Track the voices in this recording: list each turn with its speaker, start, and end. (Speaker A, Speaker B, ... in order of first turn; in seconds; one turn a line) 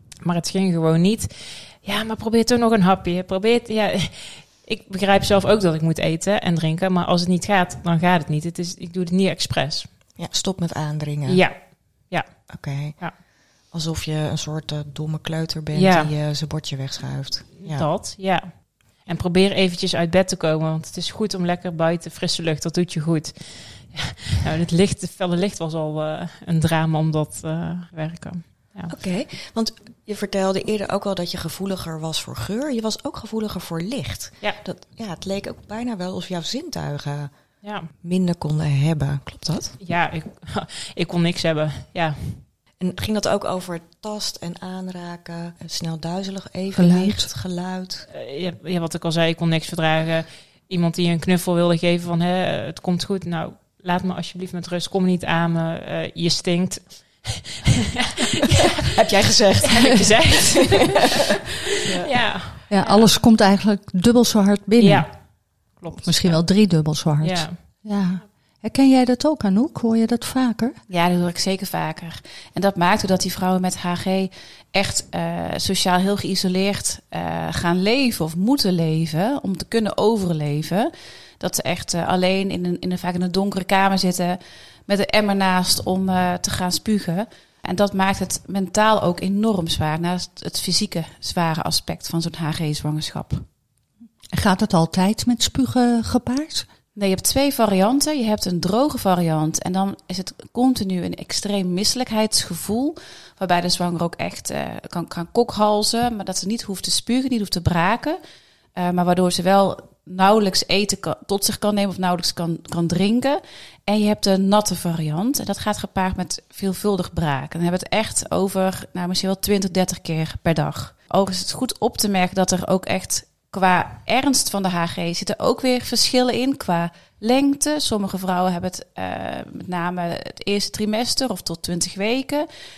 Speaker A: 0.2-9.9
Speaker B: 10.2-11.4
Speaker A: 11.3-11.6
Speaker A: 12.1-12.4
Speaker B: 12.5-13.0
Speaker B: 13.7-17.9
Speaker A: 15.7-16.1
Speaker A: 17.6-28.9
Speaker B: 28.9-37.3
Speaker A: 37.6-37.9
Speaker B: 38.0-39.8
Speaker A: 39.8-42.4
Speaker B: 42.8-48.0
Speaker C: 46.7-47.3
Speaker A: 48.1-58.8
Speaker B: 58.8-61.1
Speaker A: 59.6-61.2
Speaker B: 61.7-62.1
Speaker A: 62.0-63.1
Speaker C: 62.7-65.1
Speaker A: 64.8-65.2
Speaker A: 65.7-66.6
Speaker C: 66.0-70.8
Speaker A: 67.2-67.6
Speaker D: 70.9-93.4
Speaker C: 94.3-96.7
Speaker D: 97.0-108.2
Speaker D: 108.8-132.4